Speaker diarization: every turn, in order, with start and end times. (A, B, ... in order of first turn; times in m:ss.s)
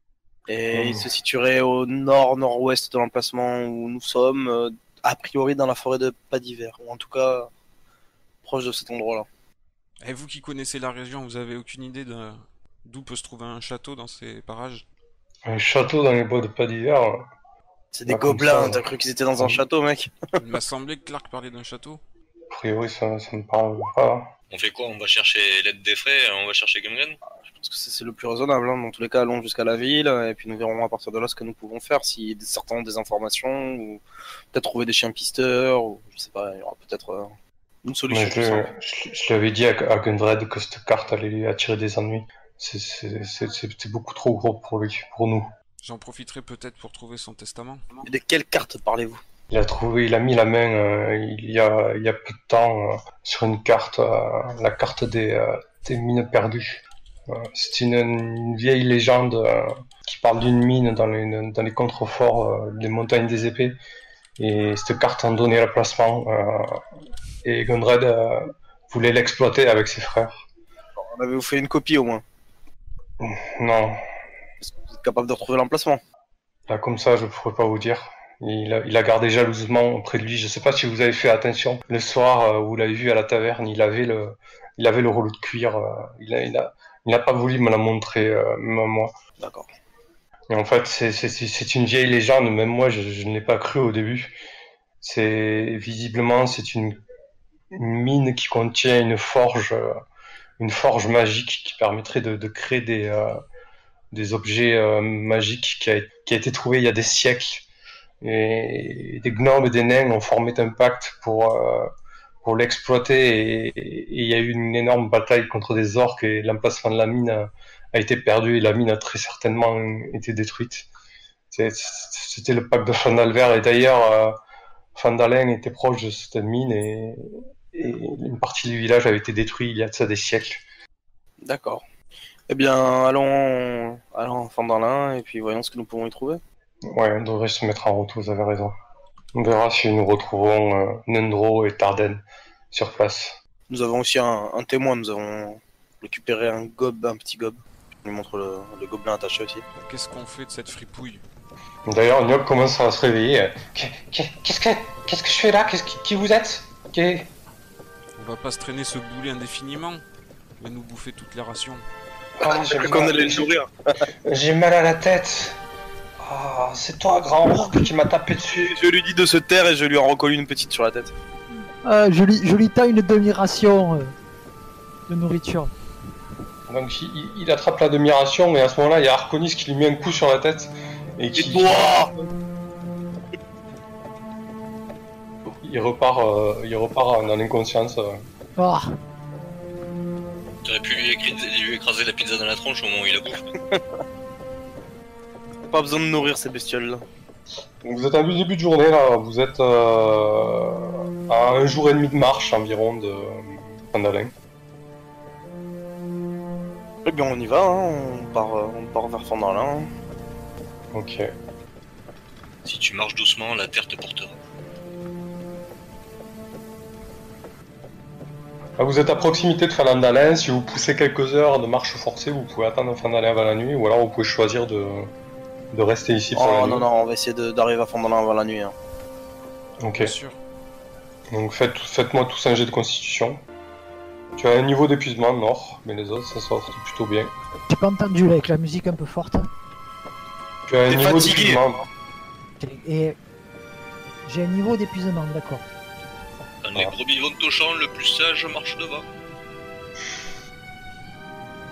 0:00.5-0:07.5 A
0:00.7-0:01.1 B
0:08.4-0:09.3 A
0:10.0-0:14.8 C
0:15.4-0:17.2 B
0:17.9-0:20.1 A
0:18.1-0:18.8 B
0:19.4-0:19.6 B
0:20.4-0:22.0 C
0:22.5-0:24.3 B
0:24.5-0:27.2 D
0:27.4-0:34.0 A
0:34.5-0:37.3 A
0:37.8-0:38.7 A
0:38.1-0:45.5 B
0:45.8-0:47.8 C
0:48.0-0:49.2 A
0:49.5-1:03.8 B
1:04.4-1:06.8 B
1:07.4-1:10.4 B
1:11.0-1:12.2 A
1:13.2-1:14.0 B
1:14.6-1:16.0 A
1:16.7-1:29.1 B
1:29.4-1:29.7 A
1:30.5-1:34.4 B
1:35.0-1:37.0 B
1:37.7-1:39.9 B
1:40.6-1:43.4 B
1:44.1-1:47.6 B
1:48.2-1:51.9 B
1:52.4-2:00.9 B
2:01.5-2:04.4 B
2:04.9-2:10.6 B
2:11.4-2:11.8 A
2:12.5-2:16.4 A
2:16.9-2:18.7 B
2:19.4-2:23.4 B
2:23.7-2:29.6 A
2:29.8-2:31.2 C
2:31.9-2:37.3 B
2:38.2-2:40.0 C
2:40.6-2:41.8 C
2:42.4-2:43.5 B
2:42.4-2:43.9 A
2:44.2-2:45.6 B
2:46.2-2:48.7 B
2:48.4-2:51.1 A
2:51.8-2:54.1 E
2:55.1-2:55.7 E
2:56.7-3:01.9 B
3:01.4-3:02.1 A
3:05.4-3:08.2 B
3:08.6-3:08.9 E
3:10.6-3:13.5 D
3:15.7-3:17.0 A
3:17.8-3:24.3 B
3:27.0-3:29.9 A
3:30.9-3:31.3 B
3:32.6-3:34.4 D
3:38.8-3:45.1 B
3:45.7-3:46.9 B
3:46.4-3:48.7 A
3:49.8-3:50.1 B
3:49.9-3:50.4 C
3:51.3-3:53.4 B
3:54.4-3:57.3 B
3:57.7-3:59.5 E
4:00.7-4:01.8 B
4:00.9-4:01.7 A
4:02.6-4:03.2 E
4:04.2-4:05.6 E
4:06.6-4:09.1 D